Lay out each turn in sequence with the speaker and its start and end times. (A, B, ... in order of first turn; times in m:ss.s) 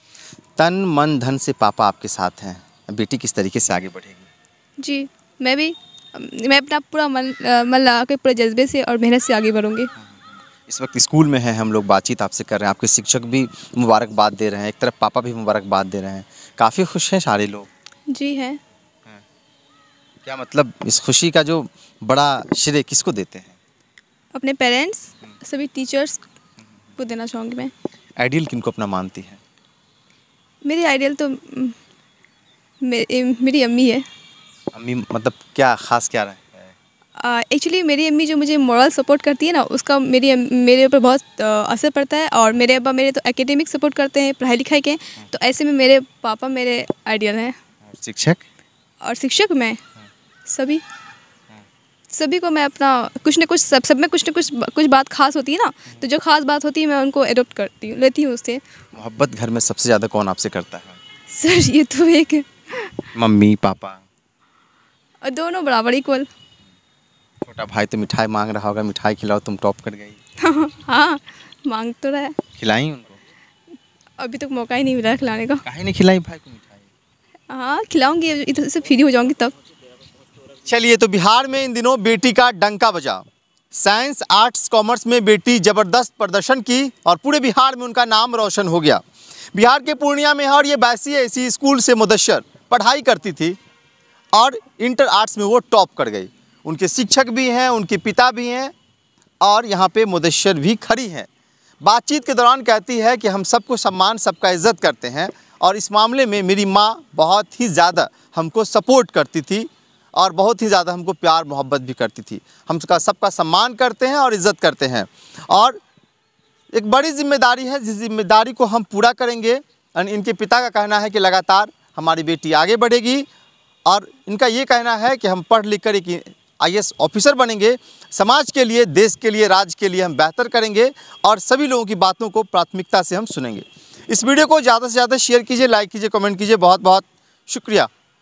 0:00.6-0:04.3 A
0:04.8-0:09.9 B
0:10.0-0:17.7 A
0:18.1-0:18.6 B
0:20.2-0:23.6 A
0:24.3-0:26.2 B
0:27.0-0:27.7 B
0:28.2-0:29.4 A
0:30.6-0:31.8 B
0:32.8-0:34.0 B
0:34.7-0:36.8 A
0:37.2-0:47.6 B
0:47.8-0:48.5 A
0:49.0-0:49.8 B
0:50.5-0:50.8 B
0:52.1-0:58.6 B
0:59.0-1:01.0 A
1:01.3-1:03.1 B
1:03.2-1:04.0 A
1:05.2-1:06.3 B
1:07.4-1:10.2 A
1:10.4-1:12.4 B
1:12.5-1:13.2 A
1:14.2-1:15.6 B
1:15.6-1:16.9 A
1:17.5-1:19.5 B
1:20.6-1:29.0 A
1:29.5-1:33.6 A
1:34.3-1:38.7 A
1:39.4-1:41.3 A
1:41.8-1:55.8 A
1:56.7-2:03.3 A
2:03.9-2:17.9 A